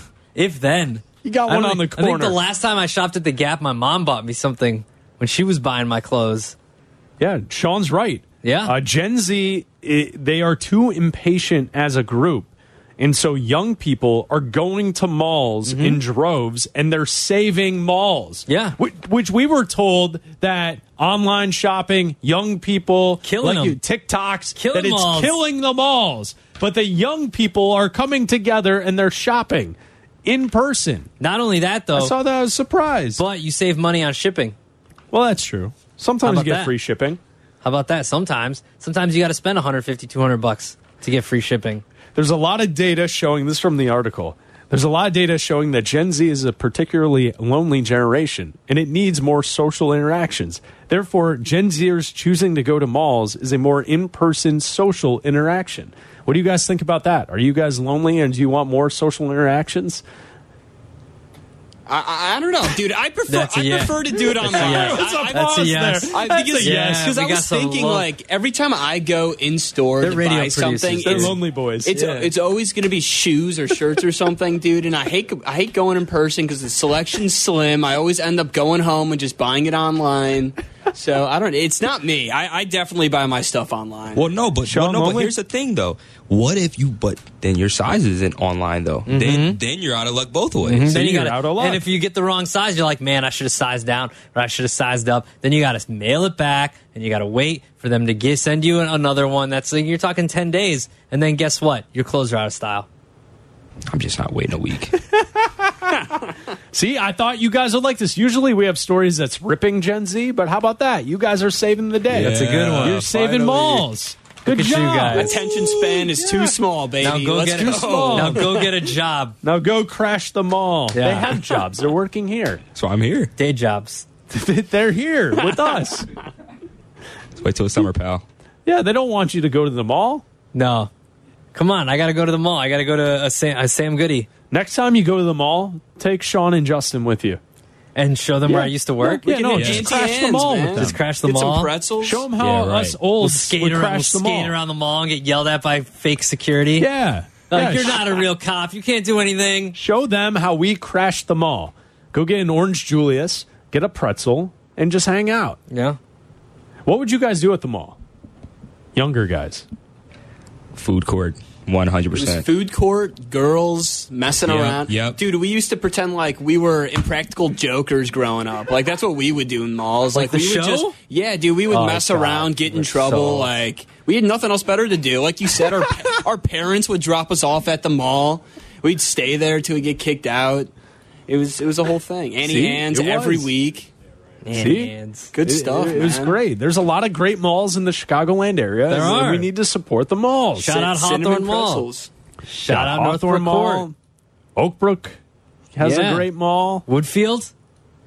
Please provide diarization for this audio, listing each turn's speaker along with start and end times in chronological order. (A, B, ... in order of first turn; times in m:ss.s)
0:00.4-0:06.6 A
0:01.2-0:02.4 B
0:07.2-0:31.1 B
0:08.4-0:08.8 A
0:15.7-0:16.0 A
0:18.5-0:18.8 A
0:23.2-0:23.8 A
0:24.6-0:25.4 A
0:31.2-0:32.2 A
0:32.0-0:33.2 B
0:33.2-0:34.6 A
0:35.1-0:37.2 B
0:36.2-0:36.7 A
0:37.6-0:41.8 A
0:42.2-1:00.0 B
1:01.9-1:05.6 C
1:03.3-1:08.1 A
1:04.4-1:07.2 B
1:06.1-1:24.3 C
1:10.0-1:11.4 A
1:11.0-1:12.3 B
1:11.9-1:12.2 A
1:24.2-1:31.0 D
1:24.6-1:25.4 B
1:29.1-1:29.6 A
1:30.6-1:42.9 A
1:30.9-1:31.8 B
1:43.9-1:45.0 D
1:45.4-1:46.1 B
1:46.7-1:56.6 B
1:52.1-1:53.8 D
1:52.1-1:53.1 A
1:54.5-1:55.4 A
1:55.1-1:58.3 C
1:57.0-1:59.4 A
1:57.6-1:58.7 B
1:57.6-1:58.4 D
1:59.4-2:02.6 B
2:00.9-2:01.4 A
2:02.8-2:03.3 D
2:03.4-2:04.1 A
2:04.3-2:06.1 B
2:07.4-2:08.2 D
2:08.7-2:10.2 B
2:10.5-2:10.9 A
2:11.5-2:14.3 A
2:14.5-2:17.4 B
2:18.0-2:19.7 A
2:18.5-2:21.0 B
2:19.2-2:22.3 C
2:19.6-2:19.9 D
2:20.8-2:21.7 A
2:22.0-2:24.6 B
2:22.4-2:23.0 D
2:23.2-2:26.9 A
2:26.8-2:28.2 B
2:27.5-2:29.8 A
2:29.7-2:35.6 B
2:35.7-2:36.0 A
2:36.8-2:38.0 B
2:39.0-2:39.7 B
2:40.8-2:42.5 D
2:42.1-3:00.7 C
2:44.4-2:45.2 D
2:50.1-2:51.0 A
2:51.7-2:53.5 A
3:01.3-3:03.9 C
3:02.4-3:03.5 B
3:04.4-3:05.3 A
3:04.5-3:10.8 B
3:05.3-3:06.4 C
3:08.9-3:09.5 A
3:10.6-3:11.9 A
3:10.6-3:12.1 C
3:12.5-3:13.9 A
3:12.7-3:14.0 B
3:14.6-3:15.2 B
3:15.7-3:16.8 B
3:15.8-3:16.3 A
3:16.9-3:17.5 A